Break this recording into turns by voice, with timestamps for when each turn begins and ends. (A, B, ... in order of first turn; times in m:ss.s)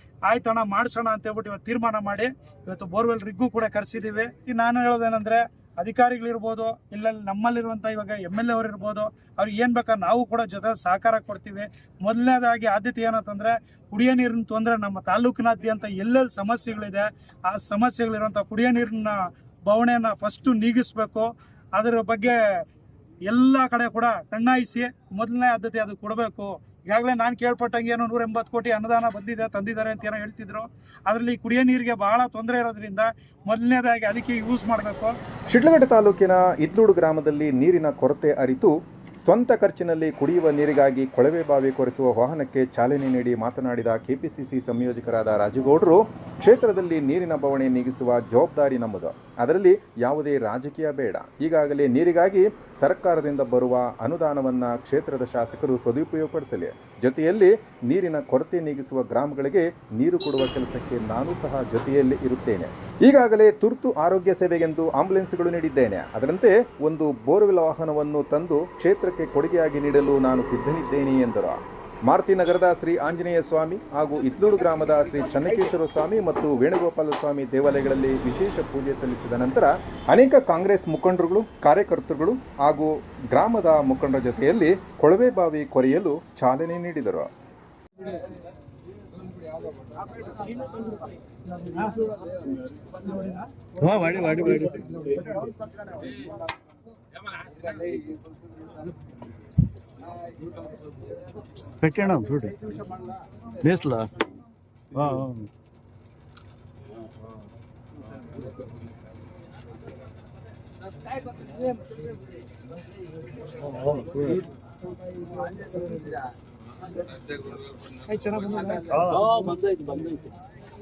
0:00.2-0:22.6 A
0:23.2-0:35.2 A
0:35.5-1:27.3 B
1:31.5-1:32.1 A
1:33.0-1:33.4 A
1:33.8-1:35.0 C
1:41.8-1:42.6 C
1:43.6-1:44.1 C
1:44.9-1:45.5 C
1:53.8-1:54.4 C
1:58.0-1:59.1 A
1:58.9-2:00.3 C